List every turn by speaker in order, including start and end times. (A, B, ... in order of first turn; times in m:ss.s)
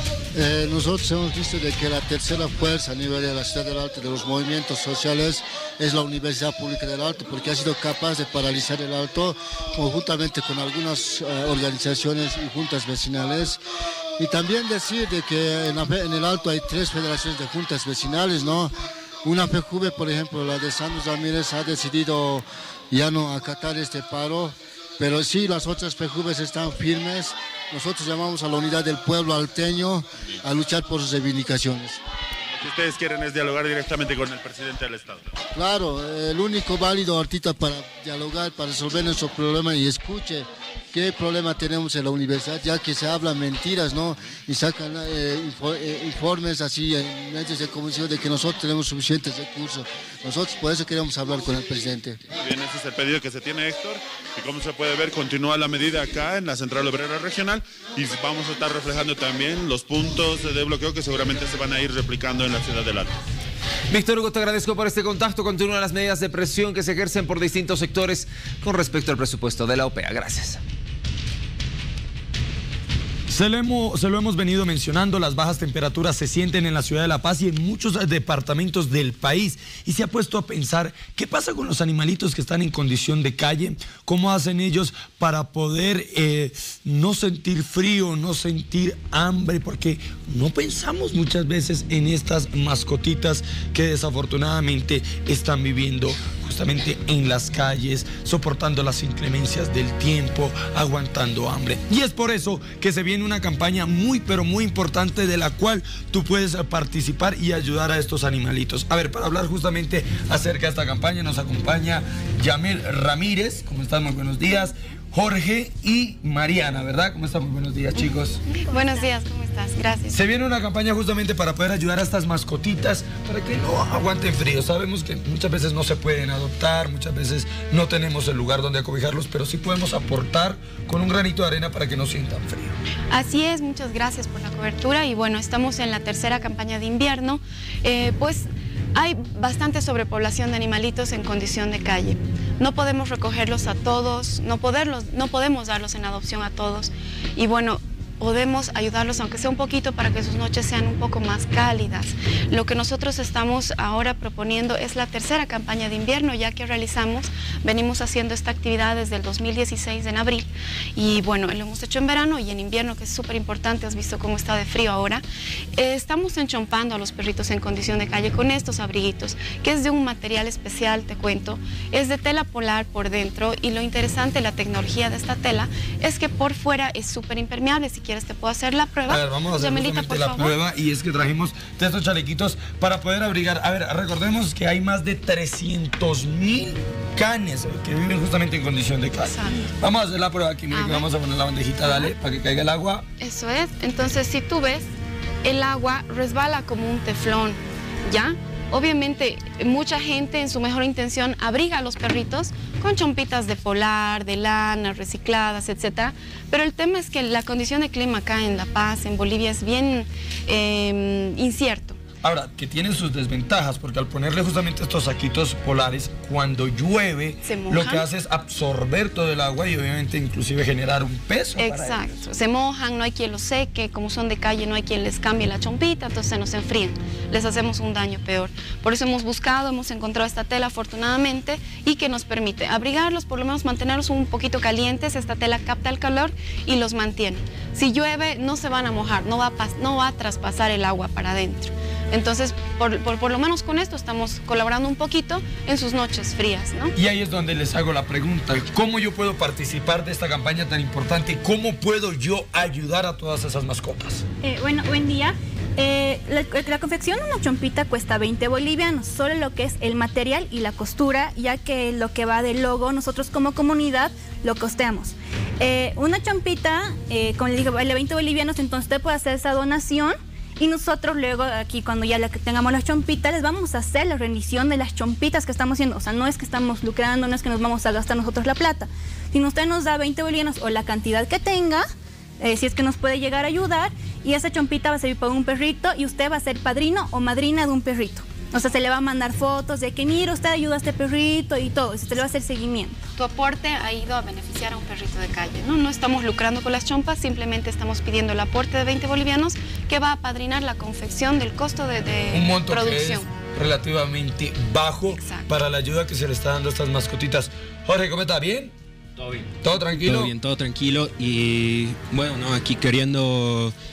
0:00.4-0:13.6 A
0:14.2-0:18.7 A
0:19.2-0:32.0 A
0:32.6-0:35.3 B
0:35.6-0:40.4 A
0:41.0-0:52.1 A
0:52.4-1:03.2 B
1:03.9-1:10.6 C
1:13.3-1:58.4 D
1:58.0-2:00.2 E
2:00.1-2:12.8 D
2:13.1-2:45.2 E
2:45.8-3:00.6 E
2:59.1-3:13.0 D
3:09.2-3:09.7 E
3:10.7-3:11.1 E
3:13.2-3:14.9 E
3:15.4-3:32.0 E
3:32.2-3:42.2 D
3:37.4-3:38.1 E
3:41.6-4:06.9 E
4:06.9-4:14.2 D
4:14.4-4:41.9 F
4:42.4-4:53.1 F
4:53.2-5:03.3 E
5:02.3-5:08.7 D
5:05.1-5:05.5 E
5:09.2-5:13.7 G
5:09.6-5:10.4 D